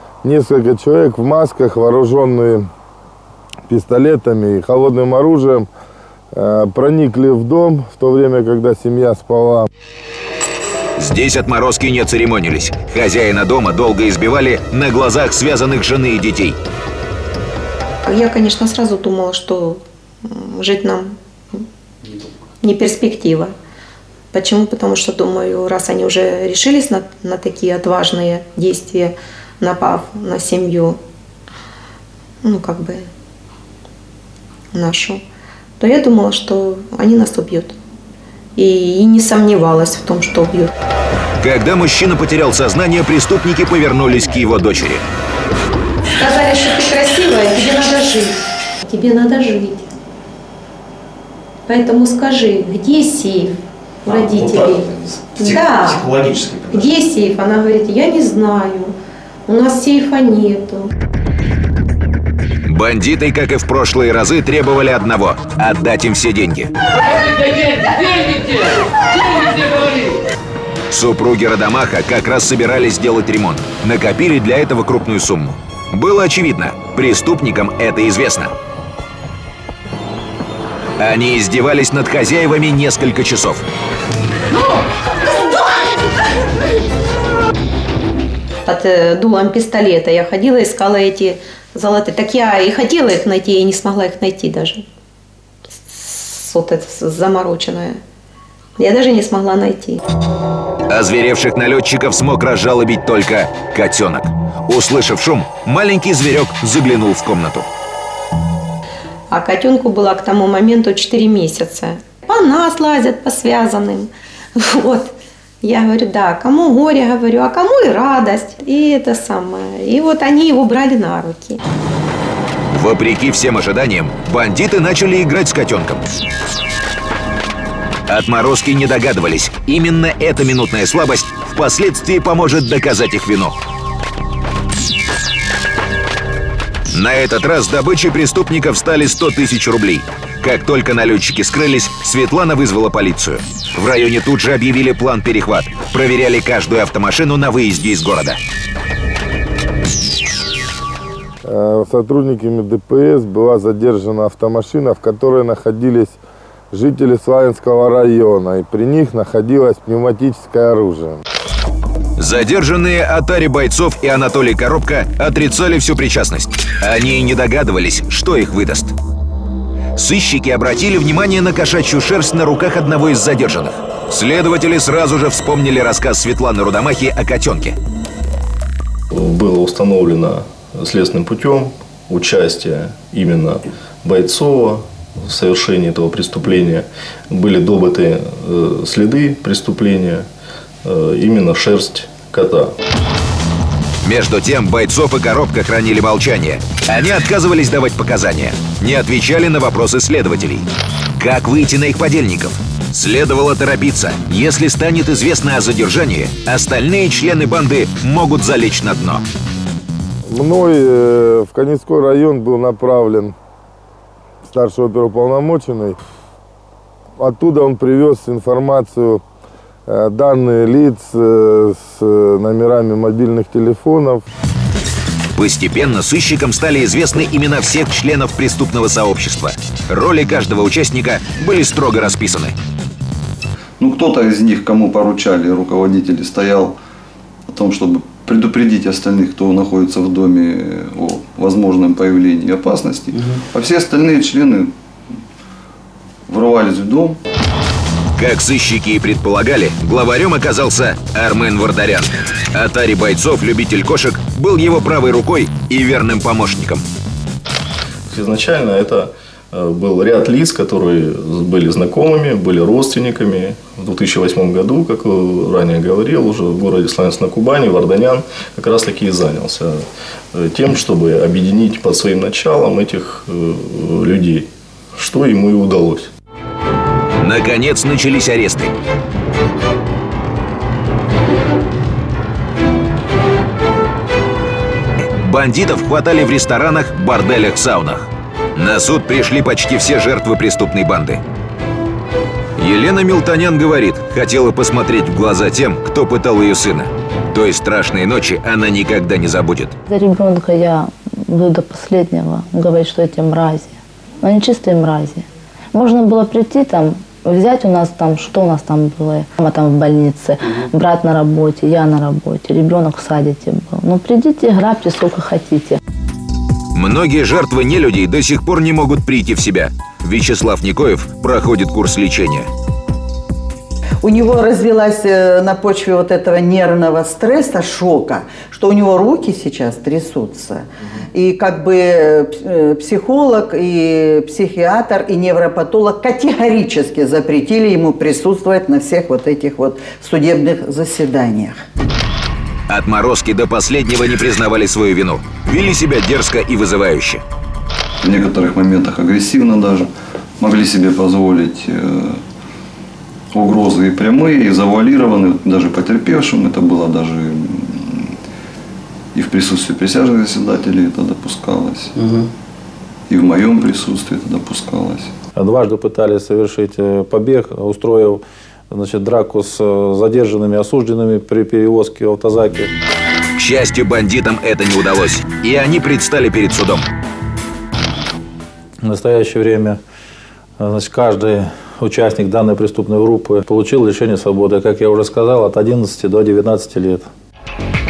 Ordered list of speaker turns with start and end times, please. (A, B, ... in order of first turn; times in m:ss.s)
0:00.2-0:02.7 A
0:03.7-0:05.7 A
0:06.3-0:09.7 A
0:11.0-0:16.6 B
0:18.1-0:21.6 C
0:22.6-0:23.5 C
0:24.3-0:31.0 C
0:32.4-0:33.0 C
0:34.7-0:35.2 C
0:35.8-0:37.8 C
0:38.6-0:40.7 C
0:41.4-0:45.0 B
0:46.2-0:49.9 C
0:51.7-0:56.2 C
0:56.7-0:58.9 C
0:59.5-1:00.9 C
1:02.6-1:06.7 B
1:07.2-1:08.7 D
1:09.3-1:10.1 D
1:10.9-1:18.5 B
1:21.0-1:23.6 B
1:28.7-1:34.8 C
1:35.9-1:38.0 C
1:38.8-1:40.0 C
1:40.9-1:47.7 B
1:49.3-2:01.6 C
2:02.7-2:06.0 B
2:08.1-2:13.6 B
2:16.9-2:28.4 B
2:31.5-2:36.2 A
2:36.7-2:41.2 A
2:42.2-2:49.0 B
2:50.0-2:57.8 B
2:59.1-3:10.3 E
3:10.8-3:12.7 E
3:14.0-3:29.2 B
3:30.3-3:33.4 A
3:34.4-3:36.0 A
3:37.2-3:39.2 A
3:39.9-3:44.2 A
3:45.4-3:52.6 B
3:53.8-3:56.8 F
3:57.5-4:04.7 F
4:06.3-4:07.2 F
4:08.2-4:16.9 B
4:18.1-4:36.1 E
4:37.2-4:38.8 B
4:45.2-4:51.2 B
4:52.6-4:59.8 B
4:59.9-5:15.8 G
5:16.8-5:22.5 B
5:24.0-5:41.6 H
5:42.7-5:47.2 B
5:48.0-5:49.9 F
5:50.4-5:52.2 F
5:53.3-5:58.1 F
5:59.2-6:01.9 F
6:03.1-6:05.1 F
6:05.4-6:12.7 I
6:13.4-6:16.9 B
6:18.8-6:19.8 I
6:20.6-6:27.1 I